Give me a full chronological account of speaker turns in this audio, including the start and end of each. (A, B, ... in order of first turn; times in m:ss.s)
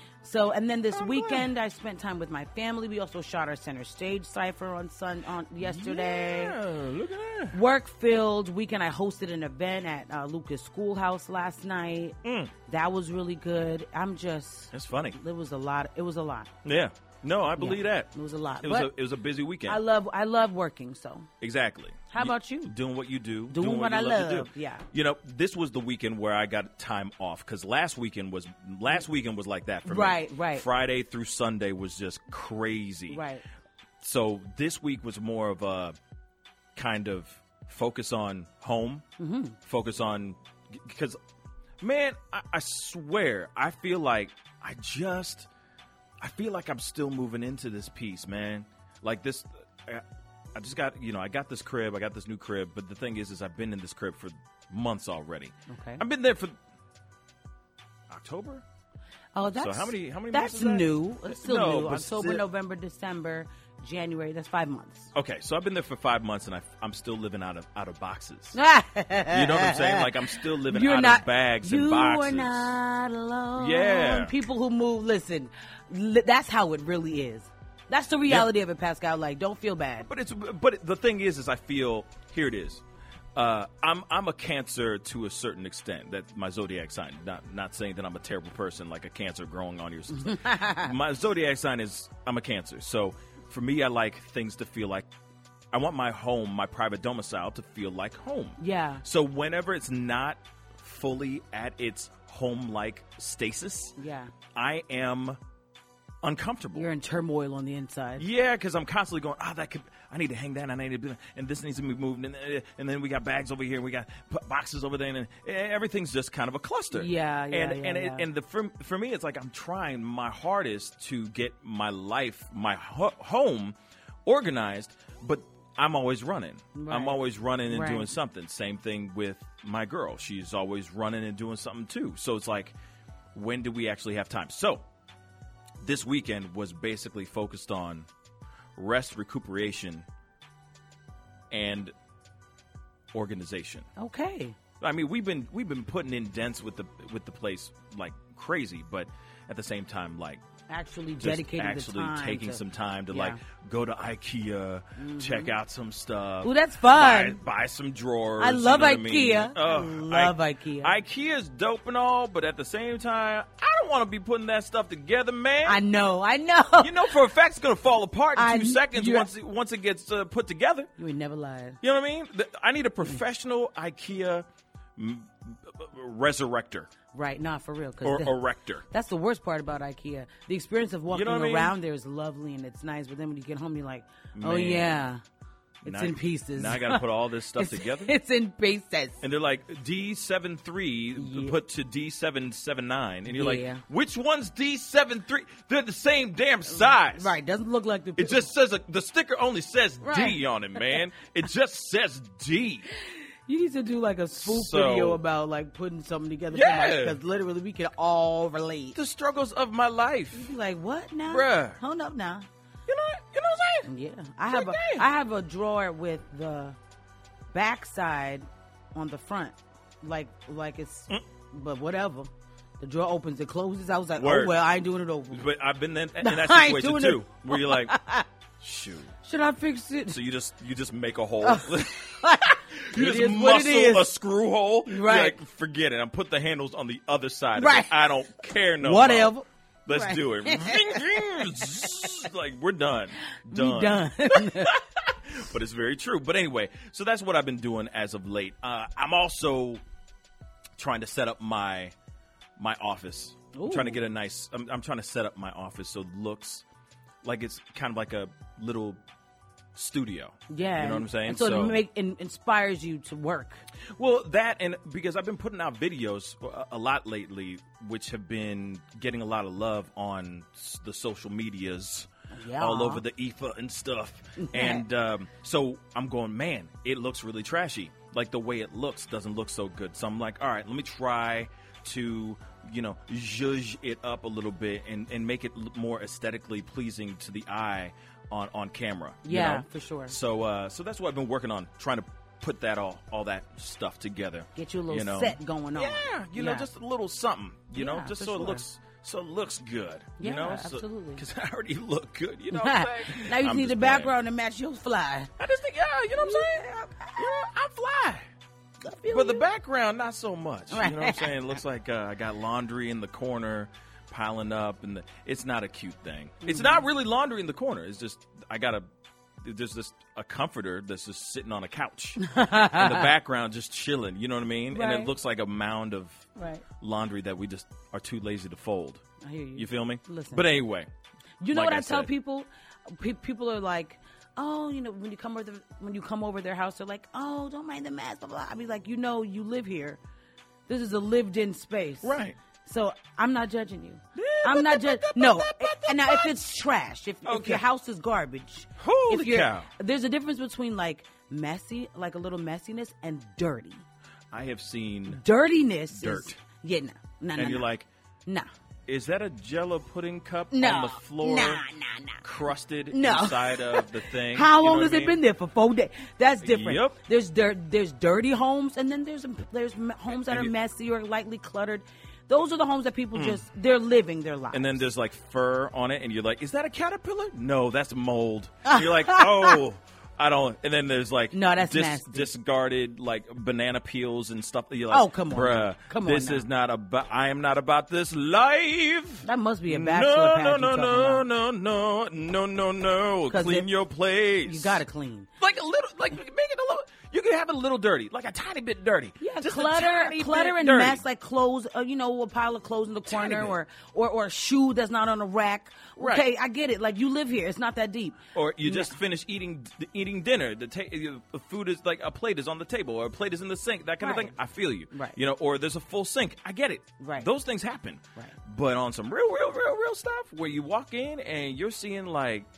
0:00.2-0:06.6 A
0:00.9-0:01.5 B
0:05.6-0:07.6 B
0:07.5-0:12.2 A
0:12.2-0:12.5 B
0:12.7-0:16.5 A
0:14.7-0:15.2 B
0:16.6-0:19.8 B
0:17.6-0:18.9 A
0:19.7-0:21.3 A
0:21.4-0:33.2 B
0:22.1-0:22.7 A
0:23.5-0:24.8 A
0:29.8-0:30.6 A
0:33.1-0:33.4 A
0:34.0-0:36.0 B
0:36.8-0:39.0 B
0:39.2-0:39.6 A
0:39.6-0:41.2 B
0:41.8-0:45.5 B
0:46.2-0:50.0 B
0:50.6-0:56.6 B
0:55.7-0:56.0 A
0:58.1-0:58.6 B
0:59.3-1:05.1 A
0:59.6-1:02.4 B
1:05.2-1:08.6 B
1:08.5-1:10.1 A
1:09.3-1:12.7 B
1:10.7-1:20.1 A
1:13.6-1:14.3 B
1:20.0-1:22.8 B
1:23.4-1:35.1 B
1:30.1-1:30.9 A
1:35.7-1:44.0 B
1:38.6-1:39.0 A
1:44.0-1:44.3 A
1:44.6-1:45.4 B
1:46.2-1:46.9 B
1:46.7-1:48.2 A
1:48.2-2:03.8 B
1:56.9-1:58.2 A
2:04.3-2:12.8 B
2:06.8-2:08.1 A
2:13.3-2:14.8 B
2:15.8-2:18.1 B
2:18.8-2:20.0 B
2:21.5-2:21.9 B
2:23.1-2:23.9 B
2:24.0-2:24.6 A
2:24.8-2:30.4 B
2:30.7-2:33.4 A
2:31.2-2:45.8 B
2:35.0-2:35.5 A
2:36.4-2:37.4 A
2:38.4-2:40.9 A
2:45.7-2:47.1 A
2:46.8-2:50.9 B
2:48.4-2:49.3 A
2:51.0-2:51.8 A
2:51.8-2:54.5 B
2:55.0-2:56.9 B
2:57.1-2:58.3 A
2:58.0-2:58.8 B
2:58.9-3:05.2 A
3:01.1-3:01.8 B
3:04.4-3:05.0 B
3:05.8-3:07.0 A
3:05.8-3:08.1 B
3:07.6-3:09.2 A
3:09.2-3:17.3 B
3:11.2-3:11.6 A
3:13.3-3:13.8 A
3:16.7-3:18.5 A
3:18.2-3:22.9 B
3:20.0-3:21.0 A
3:23.5-3:29.0 A
3:24.4-3:25.2 B
3:26.5-3:27.2 B
3:29.0-3:30.5 B
3:30.3-3:32.5 A
3:31.3-3:31.8 B
3:32.9-3:33.9 B
3:33.9-3:36.8 A
3:34.5-3:35.0 B
3:37.5-3:45.4 A
3:44.2-3:44.6 B
3:45.3-3:48.0 B
3:46.2-3:48.2 A
3:48.6-3:49.1 B
3:49.2-3:50.2 A
3:50.1-3:52.2 B
3:51.4-3:54.1 A
3:52.8-3:59.3 B
3:54.9-3:55.4 A
3:57.6-3:57.9 A
3:58.8-4:01.9 A
3:59.9-4:09.8 B
4:03.5-4:04.8 A
4:10.8-4:11.9 B
4:12.6-4:16.6 B
4:13.5-4:14.0 A
4:17.2-4:19.0 B
4:19.8-4:21.8 B
4:20.5-4:23.6 A
4:24.0-4:32.1 B
4:32.3-4:33.0 A
4:32.6-5:04.1 B
4:34.4-4:34.8 A
4:49.2-4:50.2 A
4:54.6-4:56.7 A
4:57.8-4:58.6 A
5:00.2-5:01.2 A
5:02.5-5:05.3 A
5:05.4-5:06.6 B
5:06.2-5:07.2 A
5:07.2-5:08.2 B
5:08.8-5:09.4 A
5:09.1-5:18.9 B
5:10.7-5:11.3 A
5:16.4-5:16.8 A
5:19.4-5:26.3 B
5:22.2-5:23.1 A
5:24.7-5:25.1 A
5:26.4-5:26.6 A
5:26.8-5:29.0 B
5:29.2-5:30.5 A
5:29.6-5:30.9 B
5:31.4-5:40.0 A
5:31.5-5:32.1 B
5:40.7-5:53.8 A
5:42.0-5:42.4 B
5:44.2-5:46.3 B
5:47.3-5:47.6 B
5:48.8-5:49.7 B
5:54.3-5:55.2 B
5:55.1-5:57.6 A
5:55.9-5:56.4 B
5:57.4-5:57.9 B
5:58.9-6:01.6 B
6:00.5-6:02.2 A
6:02.2-6:05.2 B
6:02.9-6:14.8 A
6:06.4-6:07.0 B
6:13.2-6:13.4 B
6:14.5-6:34.8 B
6:18.7-6:19.6 A
6:21.3-6:22.3 A
6:24.9-6:26.5 A
6:29.2-6:31.2 A
6:33.3-6:33.7 A
6:34.5-6:35.3 A
6:35.4-6:41.0 B
6:39.2-6:49.0 A
6:43.1-6:43.5 B
6:46.0-6:46.2 B
6:48.3-7:02.5 B
6:54.0-6:54.4 A
6:54.9-6:55.2 A
6:57.0-6:57.3 A